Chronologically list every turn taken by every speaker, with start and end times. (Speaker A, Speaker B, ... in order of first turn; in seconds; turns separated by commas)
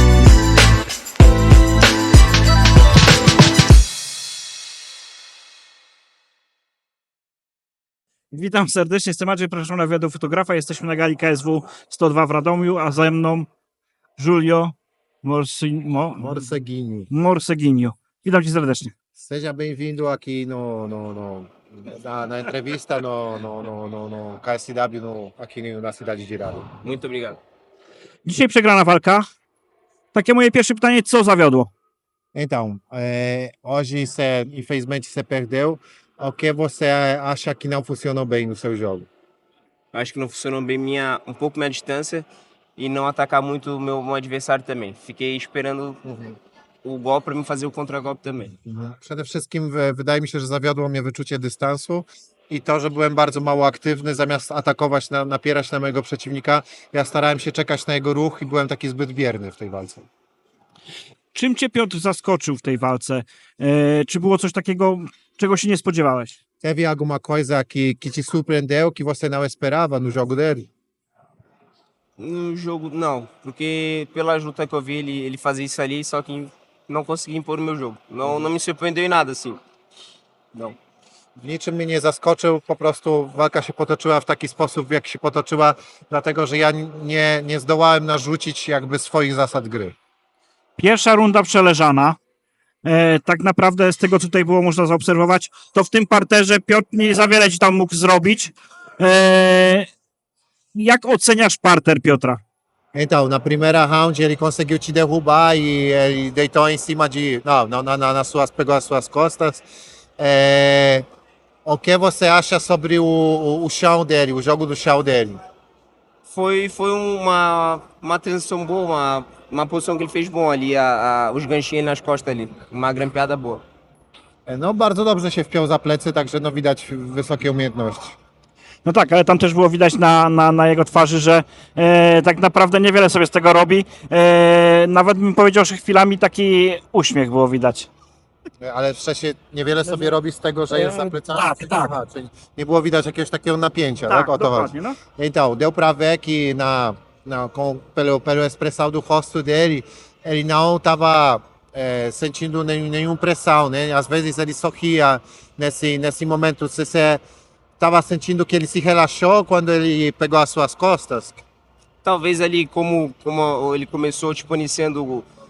Speaker A: 8.3-13.5, Speaker A: 14.2-16.4, Speaker B: 16.2-17.1, Speaker A: 17.1-18.9, Speaker B: 19.2-26.7, Speaker C: 26.8-27.4, Speaker A: 28.2-29.3, Speaker A: 30.1-31.7, Speaker B: 32.3-39.1, Speaker C: 39.9-42.3, Speaker C: 42.8-46.0, Speaker B: 46.0-46.4, Speaker C: 46.8-48.5, Speaker B: 48.7-60.1, Speaker A: 61.3-66.4, Speaker B: 66.6-70.7, Speaker C: 72.2-79.6, Speaker B: 78.2-78.5, Speaker B: 81.4-90.0, Speaker A: 90.8-92.2, Speaker A: 92.8-99.9, Speaker A: 100.7-102.4, Speaker B: 102.9-109.6, Speaker B: 110.2-111.0, Speaker B: 111.7-115.4, Speaker C: 116.3-123.6, Speaker B: 124.5-128.2, Speaker A: 128.8-137.9, Speaker B: 138.6-157.2, Speaker A: 140.7-141.9, Speaker A: 144.1-145.0, Speaker B: 157.8-161.4, Speaker C: 162.0-165.3